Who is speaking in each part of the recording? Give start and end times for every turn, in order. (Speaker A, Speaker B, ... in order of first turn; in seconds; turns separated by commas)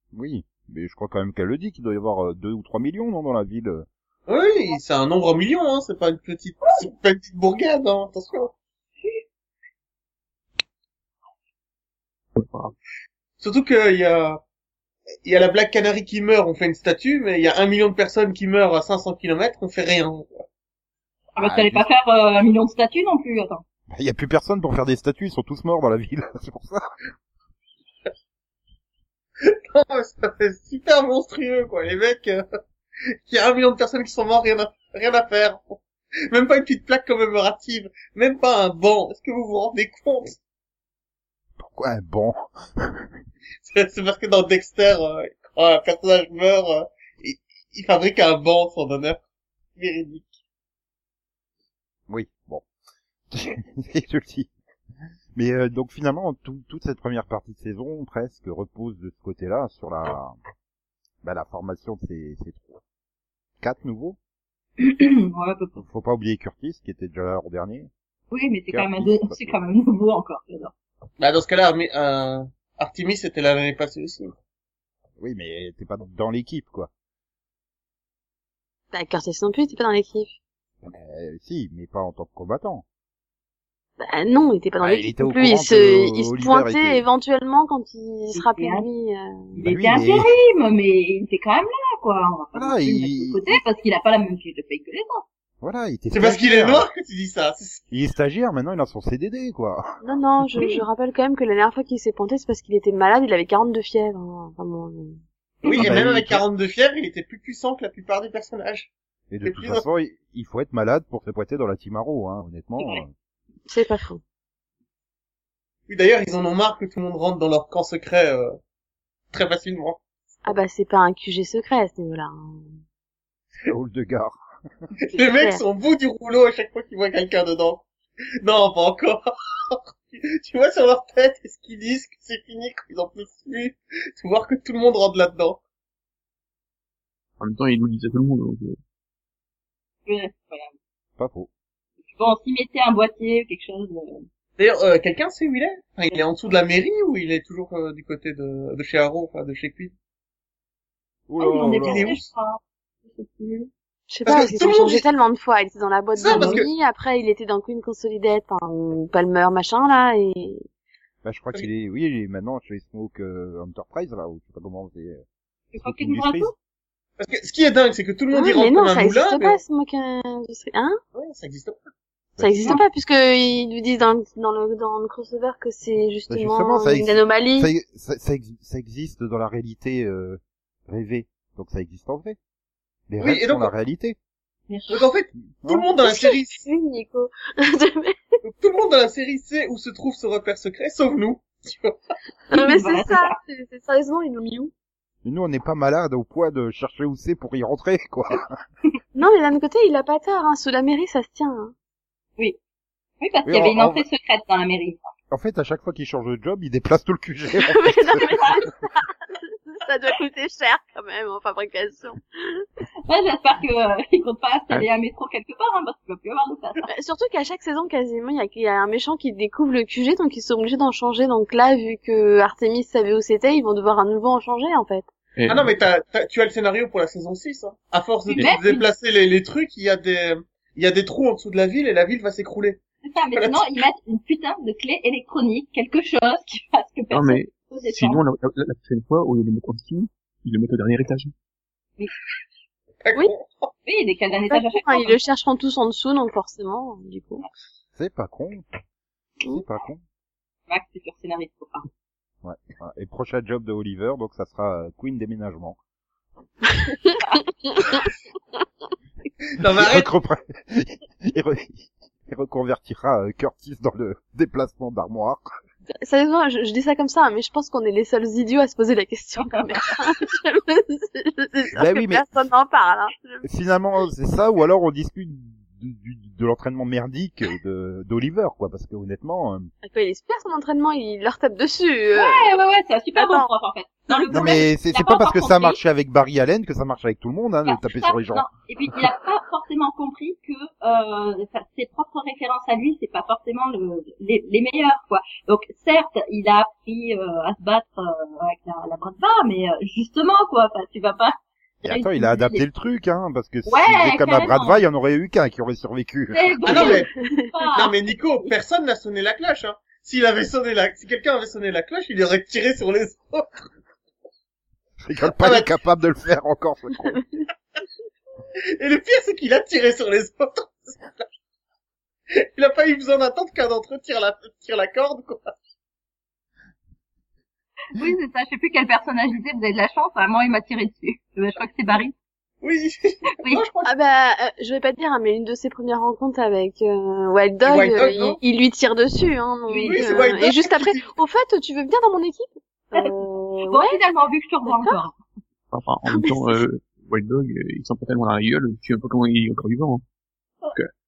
Speaker A: 0.1-3.9, Speaker B: 4.3-8.5, Speaker C: 12.4-12.8, Speaker B: 13.4-14.4, Speaker B: 15.2-20.4, Speaker D: 21.4-23.6, Speaker A: 21.4-21.9, Speaker A: 23.9-26.9, Speaker B: 29.5-32.4, Speaker B: 33.3-40.4, Speaker A: 41.6-43.1, Speaker B: 43.6-49.2, Speaker B: 49.8-50.3, Speaker A: 52.1-52.6, Speaker A: 53.3-54.5, Speaker A: 55.4-60.4, Speaker A: 61.2-62.8, Speaker A: 63.6-64.2, Speaker D: 64.8-65.8, Speaker A: 65.8-67.9, Speaker D: 68.3-70.7, Speaker A: 68.7-69.6, Speaker B: 71.2-74.3, Speaker A: 75.2-76.9, Speaker E: 78.9-80.3, Speaker A: 80.8-82.8, Speaker E: 84.0-89.6, Speaker A: 84.8-87.0, Speaker D: 88.3-88.9, Speaker D: 89.6-95.2, Speaker A: 89.6-90.3, Speaker A: 92.5-93.6, Speaker A: 95.6-96.9, Speaker B: 96.1-97.8, Speaker A: 97.9-100.0, Speaker E: 100.0-105.2, Speaker D: 105.6-105.9, Speaker B: 105.7-108.9, Speaker A: 105.8-106.4, Speaker A: 109.3-113.1, Speaker B: 109.4-109.8, Speaker E: 113.7-114.2, Speaker B: 115.9-118.6, Speaker B: 119.3-120.0, Speaker E: 120.5-122.7, Speaker A: 123.6-124.4, Speaker B: 125.1-127.8, Speaker E: 125.2-125.6, Speaker B: 128.4-135.6, Speaker C: 137.4-138.8, Speaker D: 140.1-140.7, Speaker A: 141.2-141.5, Speaker D: 142.1-144.3, Speaker B: 144.6-149.9, Speaker A: 151.3-152.2, Speaker D: 151.4-153.7, Speaker B: 151.6-152.3, Speaker E: 154.1-160.6, Speaker B: 154.3-155.1, Speaker B: 156.2-156.7, Speaker D: 156.2-156.7, Speaker A: 161.2-165.2, Speaker D: 165.7-166.5, Speaker A: 165.8-166.5, Speaker B: 167.2-169.6, Speaker E: 168.3-171.0, Speaker B: 171.1-171.8, Speaker A: 172.4-172.8, Speaker E: 172.4-177.7, Speaker A: 176.3-182.4, Speaker A: 183.1-184.2, Speaker B: 183.2-183.7, Speaker D: 184.7-185.1, Speaker B: 184.9-186.6, Speaker A: 185.6-185.9, Speaker E: 186.0-188.4, Speaker B: 188.4-192.0, Speaker E: 192.5-194.7, Speaker D: 192.5-193.4, Speaker A: 195.2-198.5, Speaker E: 199.2-201.7, Speaker D: 203.2-205.1, Speaker A: 203.5-204.1, Speaker A: 205.3-208.5, Speaker E: 207.6-212.7, Speaker D: 213.1-216.9, Speaker E: 216.9-225.1, Speaker C: 225.4-225.8, Speaker B: 225.5-232.8, Speaker D: 228.3-228.9, Speaker D: 233.1-238.2, Speaker B: 233.3-233.7, Speaker C: 237.1-241.3, Speaker B: 243.0-243.7, Speaker D: 243.9-245.2, Speaker E: 244.5-247.5, Speaker A: 248.0-248.7, Speaker A: 249.4-250.0, Speaker D: 250.7-251.9, Speaker A: 252.4-255.8, Speaker E: 257.7-258.0, Speaker B: 259.5-260.1, Speaker A: 259.7-265.5, Speaker E: 266.0-273.5, Speaker D: 269.4-270.0, Speaker A: 271.8-272.3, Speaker A: 273.4-279.7, Speaker E: 279.8-282.5, Speaker D: 282.2-285.8, Speaker E: 283.2-283.5, Speaker E: 284.1-284.6, Speaker A: 284.3-288.5, Speaker D: 287.7-302.6, Speaker A: 301.8-307.0, Speaker D: 303.7-304.8, Speaker D: 306.3-308.5, Speaker B: 306.6-307.1, Speaker E: 306.8-307.5, Speaker B: 307.7-313.7, Speaker A: 315.0-317.2, Speaker B: 315.4-315.7, Speaker B: 318.8-321.3, Speaker B: 322.6-325.5, Speaker D: 327.9-332.1, Speaker B: 332.6-333.9, Speaker E: 333.9-344.0, Speaker B: 337.6-338.4, Speaker D: 339.7-340.2, Speaker B: 339.8-341.1, Speaker D: 343.0-345.2, Speaker C: 345.7-350.0, Speaker E: 346.1-346.6